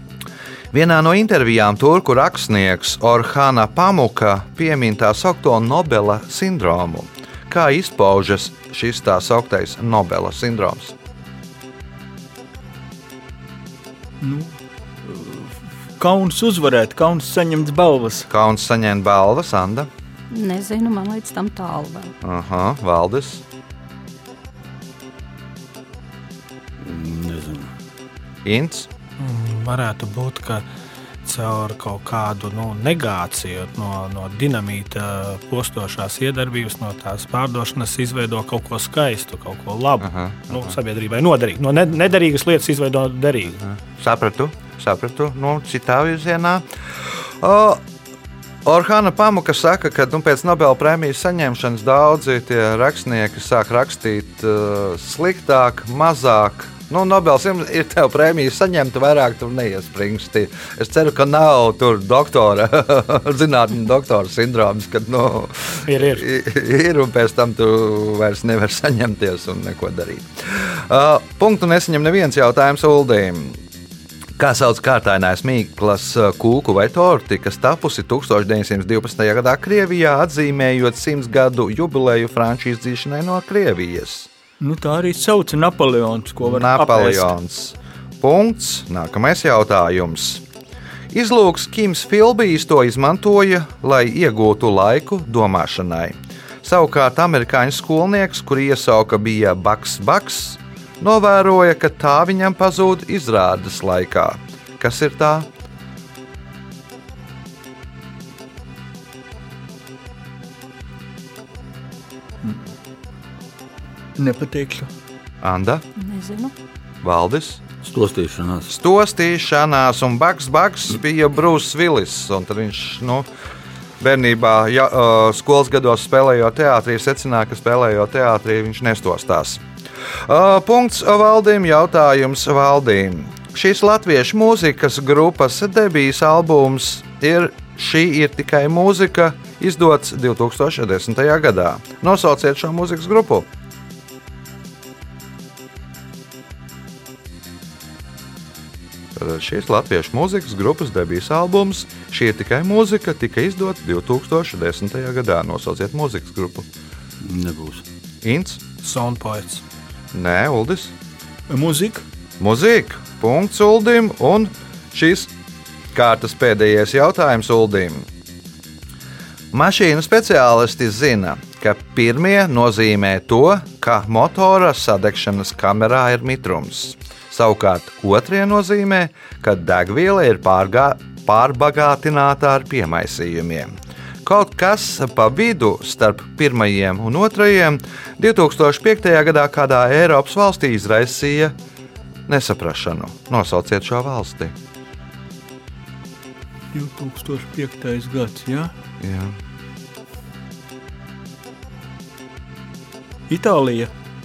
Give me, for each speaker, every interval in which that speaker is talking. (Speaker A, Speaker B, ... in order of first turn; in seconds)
Speaker A: 0.7-10.9, 18.3-19.9, 22.2-23.4, 28.4-28.9, 40.0-40.7, 43.7-47.8, 48.6-73.6, 74.4-84.3, 86.4-90.4, 91.1-105.5, 115.4-115.8, 117.0-117.6, 118.7-123.3, 124.0-129.6, 130.3-143.5, 149.2-156.7, 158.2-158.6, 160.1-160.9, 162.4-165.3, 165.9-168.1, 169.5-183.7, 184.2-191.6, 192.3-194.5, 199.0-199.3
Speaker B: 14.2-18.3, 84.6-87.3, 112.4-112.7, 114.2-114.9, 161.5-162.0, 196.7-198.7, 203.3-203.9
Speaker C: 20.3-22.1, 116.0-116.5
Speaker D: 26.8-27.7, 117.8-118.7, 157.2-157.8
Speaker E: 29.2-30.6, 31.2-43.6, 65.8-66.3, 158.8-159.6